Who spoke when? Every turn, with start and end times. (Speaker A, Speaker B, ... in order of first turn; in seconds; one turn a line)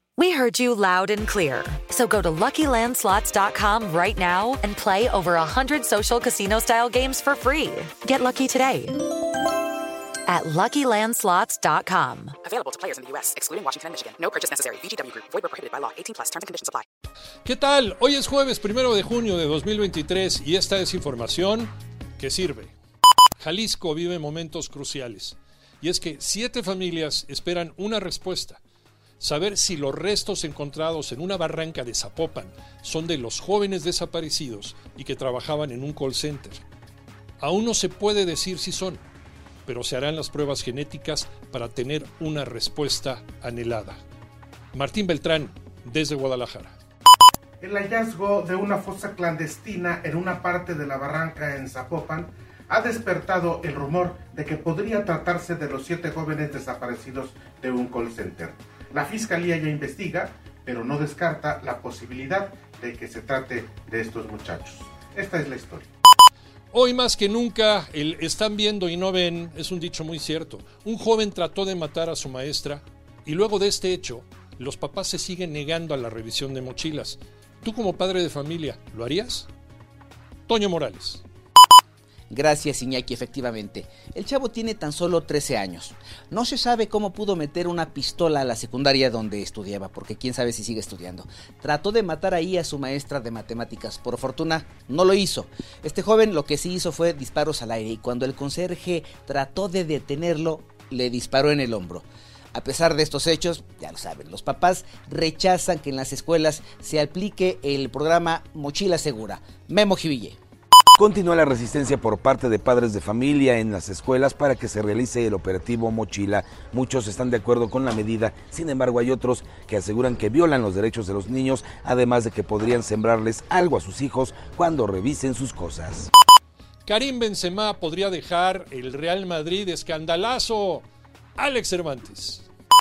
Speaker A: 0.2-8.9
Speaker A: 10.3-12.3
Speaker B: 12.4-16.9
Speaker C: 17.4-22.8
Speaker C: 23.4-28.6
Speaker C: 29.2-36.6
Speaker C: 37.4-39.0
Speaker C: 39.7-44.0
Speaker C: 44.7-46.8
Speaker D: 47.6-65.9
Speaker C: 66.7-79.5
Speaker C: 80.5-81.2
Speaker E: 82.3-110.4
Speaker F: 111.0-126.1
Speaker C: 126.8-130.8
Speaker C: 131.4-132.5